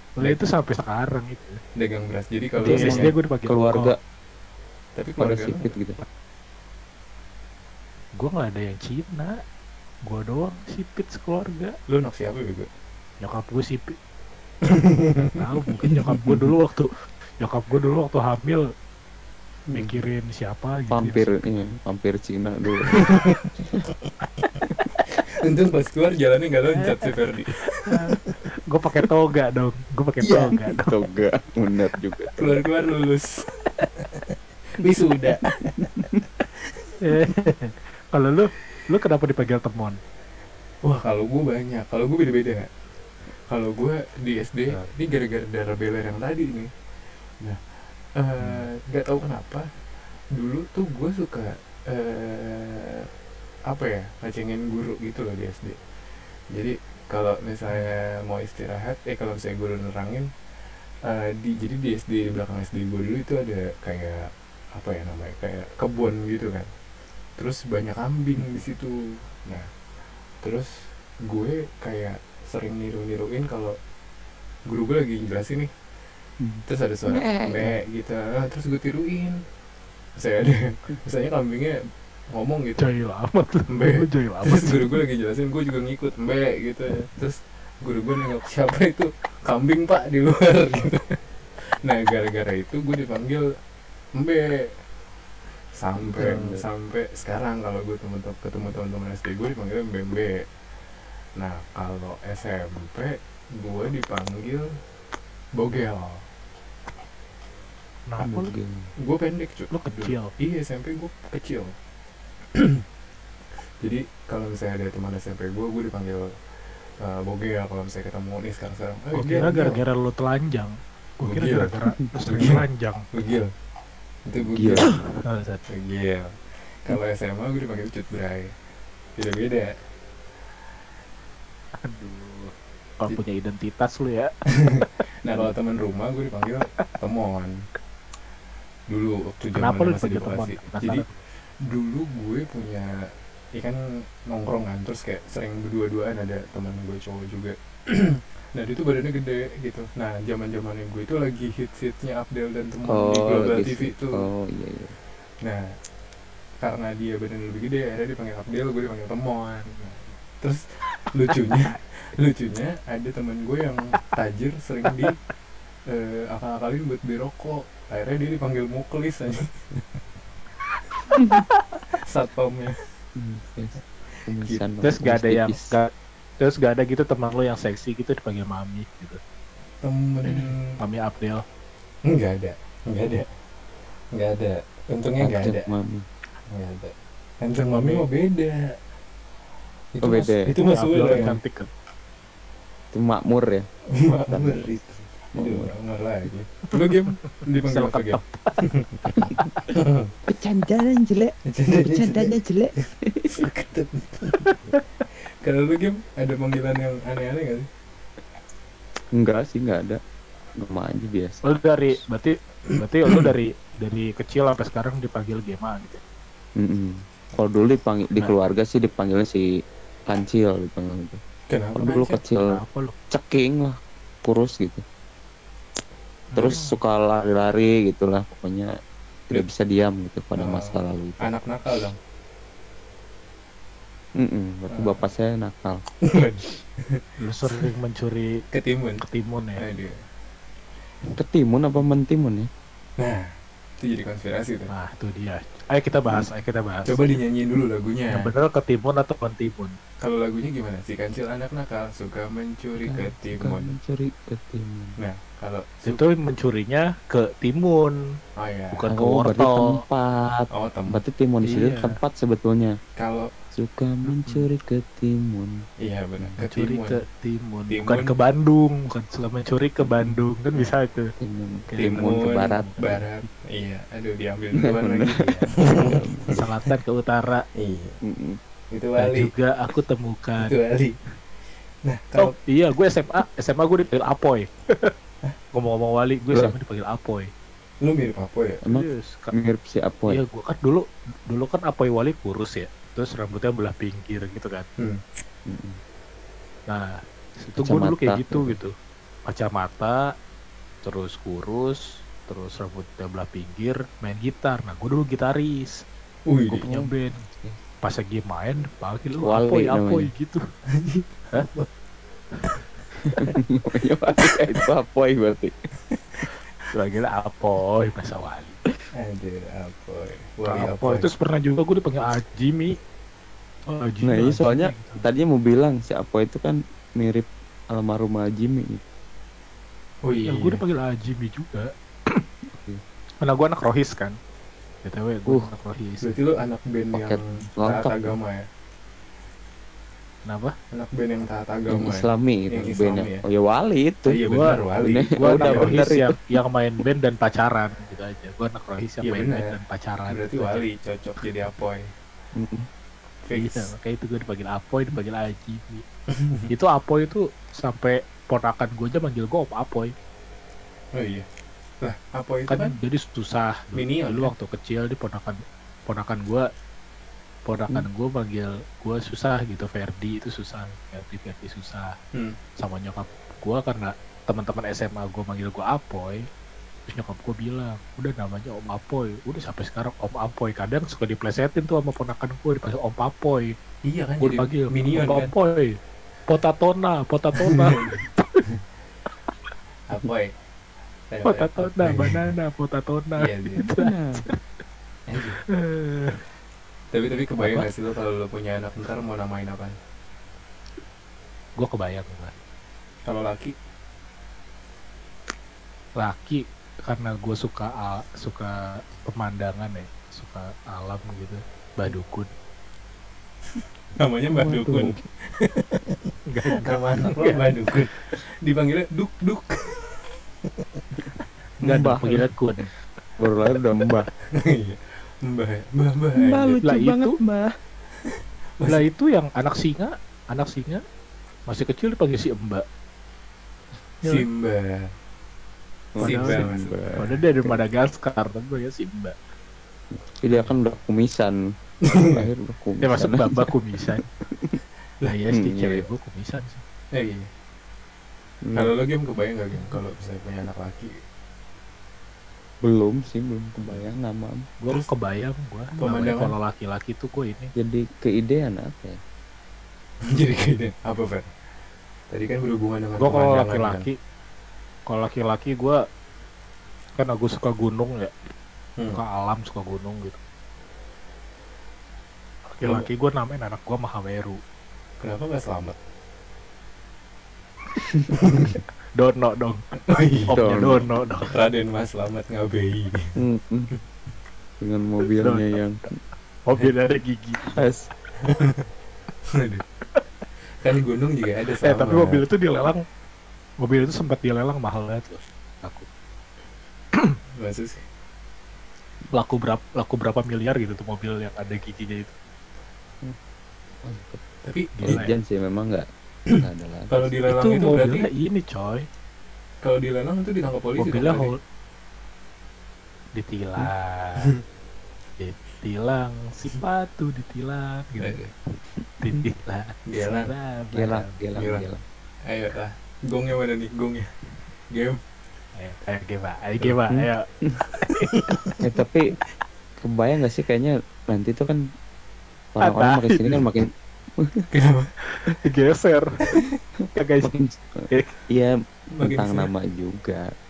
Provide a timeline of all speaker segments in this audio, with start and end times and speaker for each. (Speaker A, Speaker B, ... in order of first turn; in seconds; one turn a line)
Speaker A: 0.2-1.6
Speaker B: 1.8-3.1
Speaker C: 2.6-4.0
Speaker A: 2.6-4.0
Speaker B: 5.0-5.7
Speaker C: 5.2-6.0
Speaker A: 8.2-9.4
Speaker A: 10.0-11.8
Speaker B: 11.9-12.7
Speaker A: 13.2-14.0
Speaker B: 14.7-15.4
Speaker A: 15.2-18.7
Speaker C: 15.8-16.5
Speaker A: 19.7-21.2
Speaker C: 20.9-23.0
Speaker B: 22.9-23.5
Speaker B: 25.3-28.0
Speaker A: 27.8-31.0
Speaker B: 30.2-30.6
Speaker C: 30.6-32.6
Speaker B: 32.4-36.1
Speaker C: 36.0-36.2
Speaker A: 37.0-40.0
Speaker B: 40.8-42.7
Speaker B: 43.5-46.7
Speaker B: 48.2-49.7
Speaker B: 50.3-53.1
Speaker B: 53.7-55.8
Speaker B: 56.5-60.3
Speaker B: 61.1-66.7
Speaker B: 67.4-69.7
Speaker B: 70.4-73.8
Speaker B: 74.7-75.7
Speaker C: 76.4-77.8
Speaker B: 76.7-79.4
Speaker B: 80.2-81.8
Speaker B: 82.3-82.9
Speaker A: 82.8-84.9
Speaker B: 83.7-91.2
Speaker B: 91.8-93.5
Speaker B: 94.2-94.8
Speaker B: 95.8-100.5
Speaker C: 96.1-96.7
Speaker B: 101.4-104.7
Speaker B: 105.5-106.2
Speaker A: 108.1-108.5
Speaker C: 108.2-108.9
Speaker B: 109.0-111.8
Speaker A: 109.7-110.3
Speaker B: 112.5-112.8
Speaker B: 113.8-116.3
Speaker B: 117.0-119.8
Speaker A: 119.2-123.1
Speaker B: 121.2-121.7
Speaker B: 122.3-123.5
Speaker B: 124.3-125.0
Speaker C: 124.5-124.9
Speaker A: 124.8-125.6
Speaker B: 125.7-128.5
Speaker B: 129.2-129.7
Speaker A: 131.8-134.3
Speaker B: 134.5-137.6
Speaker B: 138.9-141.1
Speaker A: 139.6-141.2
Speaker B: 141.7-142.9
Speaker B: 143.6-154.2
Speaker C: 152.9-155.0
Speaker B: 155.4-155.7
Speaker B: 156.6-165.2
Speaker B: 165.9-169.8
Speaker A: 171.1-171.4
Speaker B: 171.9-172.8
Speaker C: 173.2-175.8
Speaker A: 174.8-179.2
Speaker B: 179.8-180.8
Speaker A: 180.8-181.4
Speaker B: 182.1-183.3
Speaker B: 184.1-185.7
Speaker C: 185.2-186.1
Speaker B: 186.5-188.8
Speaker A: 187.6-188.1
Speaker B: 189.9-191.4
Speaker C: 190.0-190.5
Speaker A: 190.1-191.7
Speaker C: 192.9-193.7
Speaker B: 193.9-200.1
Speaker C: 194.3-194.7
Speaker C: 195.3-195.7
Speaker A: 197.5-198.6
Speaker C: 200.3-203.5
Speaker B: 201.5-202.4
Speaker B: 203.3-204.5
Speaker A: 204.5-204.8
Speaker B: 205.4-207.7
Speaker C: 209.2-210.0
Speaker C: 210.6-211.4
Speaker A: 211.4-216.0
Speaker C: 216.6-219.5
Speaker C: 220.1-221.2
Speaker B: 221.5-222.1
Speaker C: 221.8-224.8
Speaker A: 221.9-222.9
Speaker A: 226.3-226.8
Speaker C: 226.4-228.7
Speaker C: 229.3-231.3
Speaker B: 230.4-232.0
Speaker C: 234.2-235.8
Speaker B: 234.7-235.0
Speaker B: 236.0-237.7
Speaker A: 237.2-238.4
Speaker B: 238.5-239.0
Speaker A: 239.0-239.6
Speaker B: 239.6-240.0
Speaker C: 241.1-242.5
Speaker B: 243.0-243.3
Speaker B: 243.8-244.7
Speaker A: 244.7-247.0
Speaker B: 246.8-248.3
Speaker A: 248.1-249.8
Speaker B: 250.0-253.7
Speaker C: 252.8-255.0
Speaker B: 255.0-256.0
Speaker A: 255.8-258.0
Speaker B: 258.4-258.9
Speaker A: 258.7-259.8
Speaker C: 258.9-262.8
Speaker B: 260.5-261.0
Speaker A: 261.4-262.0
Speaker B: 263.0-263.3
Speaker C: 263.5-265.6
Speaker A: 264.1-264.4
Speaker B: 265.8-267.0
Speaker A: 266.4-271.1
Speaker B: 267.7-268.1
Speaker C: 271.2-273.0
Speaker A: 271.7-273.3
Speaker B: 271.8-276.4
Speaker C: 274.6-276.4
Speaker A: 276.3-277.4
Speaker B: 277.6-278.0
Speaker C: 278.0-278.4
Speaker B: 278.7-279.3
Speaker A: 279.0-280.6
Speaker B: 280.4-281.0
Speaker B: 281.9-282.3
Speaker A: 282.2-284.9
Speaker A: 285.5-287.3
Speaker B: 287.8-288.6
Speaker C: 288.6-290.2
Speaker A: 288.7-289.3
Speaker A: 290.1-294.7
Speaker B: 294.8-295.0
Speaker C: 295.5-295.8
Speaker A: 296.7-298.7
Speaker C: 297.6-298.6
Speaker A: 299.3-300.1
Speaker A: 300.8-305.8
Speaker B: 306.3-306.7
Speaker A: 306.5-307.2
Speaker C: 306.6-307.6
Speaker A: 307.8-310.4
Speaker C: 309.2-310.1
Speaker B: 310.7-311.6
Speaker C: 313.1-315.6
Speaker A: 316.7-318.6
Speaker B: 318.9-321.1
Speaker A: 320.5-322.8
Speaker A: 323.7-325.1
Speaker C: 324.0-328.8
Speaker B: 330.0-330.6
Speaker A: 330.3-332.2
Speaker C: 332.5-332.8
Speaker A: 333.2-334.2
Speaker A: 334.8-336.1
Speaker B: 336.0-338.4
Speaker C: 336.9-338.1
Speaker A: 340.3-340.6
Speaker B: 340.7-343.2
Speaker C: 341.7-344.2
Speaker B: 344.1-345.8
Speaker A: 344.2-344.6
Speaker C: 344.8-346.2
Speaker A: 345.1-350.6
Speaker B: 349.0-349.6
Speaker B: 350.1-351.9
Speaker C: 352.4-352.7
Speaker B: 353.2-353.7
Speaker A: 353.3-355.9
Speaker B: 356.1-356.5
Speaker A: 356.5-359.9
Speaker B: 360.9-361.3
Speaker B: 361.8-362.8
Speaker A: 362.5-366.5
Speaker B: 363.7-364.3
Speaker A: 367.5-371.9
Speaker A: 372.6-376.3
Speaker A: 376.9-383.6
Speaker B: 383.9-385.3
Speaker A: 384.2-388.4
Speaker B: 387.4-388.5
Speaker B: 389.9-390.3
Speaker B: 391.1-392.3
Speaker A: 391.2-394.4
Speaker B: 393.2-393.7
Speaker C: 393.7-394.2
Speaker B: 395.1-395.4
Speaker A: 395.5-396.2
Speaker B: 396.9-399.8
Speaker A: 397.4-397.7
Speaker A: 401.6-402.3
Speaker B: 403.1-403.6
Speaker A: 406.0-412.3
Speaker B: 414.0-416.0
Speaker C: 414.4-415.0
Speaker A: 416.3-417.4
Speaker B: 416.6-420.6
Speaker A: 421.6-422.7
Speaker C: 421.6-422.3
Speaker C: 423.2-424.1
Speaker B: 424.2-426.6
Speaker C: 426.2-427.5
Speaker A: 426.6-427.2
Speaker A: 428.7-430.8
Speaker A: 431.5-432.6
Speaker B: 434.1-434.9
Speaker C: 435.9-437.6
Speaker A: 436.0-436.5
Speaker B: 436.0-437.1
Speaker A: 437.0-439.1
Speaker C: 439.9-443.5
Speaker B: 441.9-442.3
Speaker A: 442.8-444.0
Speaker C: 444.2-444.6
Speaker A: 445.1-446.6
Speaker C: 445.3-445.9
Speaker B: 446.9-447.3
Speaker C: 448.4-448.7
Speaker B: 448.5-450.9
Speaker C: 452.6-454.5
Speaker A: 454.6-457.5
Speaker B: 455.8-456.4
Speaker C: 457.6-459.0
Speaker B: 460.1-461.3
Speaker B: 462.1-463.9
Speaker A: 463.0-464.0
Speaker A: 464.9-465.8
Speaker A: 467.0-468.1
Speaker A: 468.9-470.2
Speaker A: 472.5-474.4
Speaker B: 472.6-472.9
Speaker B: 475.0-475.8
Speaker C: 477.8-478.1
Speaker B: 478.2-478.6
Speaker A: 479.0-479.6
Speaker B: 479.9-480.3
Speaker A: 480.3-481.4
Speaker C: 480.3-480.9
Speaker B: 481.3-483.2
Speaker C: 483.2-483.7
Speaker C: 484.6-485.9
Speaker A: 485.1-485.6
Speaker A: 486.5-487.7
Speaker C: 487.5-487.9
Speaker B: 488.2-488.6
Speaker B: 489.3-489.6
Speaker B: 490.6-492.2
Speaker A: 491.6-492.8
Speaker A: 493.6-495.9
Speaker B: 497.4-497.8
Speaker A: 499.1-502.1
Speaker C: 503.8-504.2
Speaker B: 504.4-505.1
Speaker A: 504.8-505.1
Speaker C: 504.9-507.1
Speaker B: 506.3-508.1
Speaker A: 507.3-508.9
Speaker B: 509.6-511.3
Speaker A: 510.8-511.4
Speaker A: 513.2-514.3
Speaker A: 515.2-518.2
Speaker B: 518.0-518.3
Speaker A: 519.0-521.2
Speaker B: 519.9-520.3
Speaker C: 520.7-521.8
Speaker B: 521.4-521.7
Speaker B: 522.3-524.1
Speaker B: 524.7-525.0
Speaker A: 525.6-527.2
Speaker C: 526.9-527.6
Speaker A: 527.8-528.4
Speaker B: 527.9-528.6
Speaker C: 528.6-529.1
Speaker C: 529.8-531.6
Speaker C: 532.6-534.5
Speaker A: 532.6-533.5
Speaker B: 534.5-534.9
Speaker A: 535.2-536.2
Speaker A: 537.0-537.3
Speaker C: 537.2-540.3
Speaker B: 539.0-539.5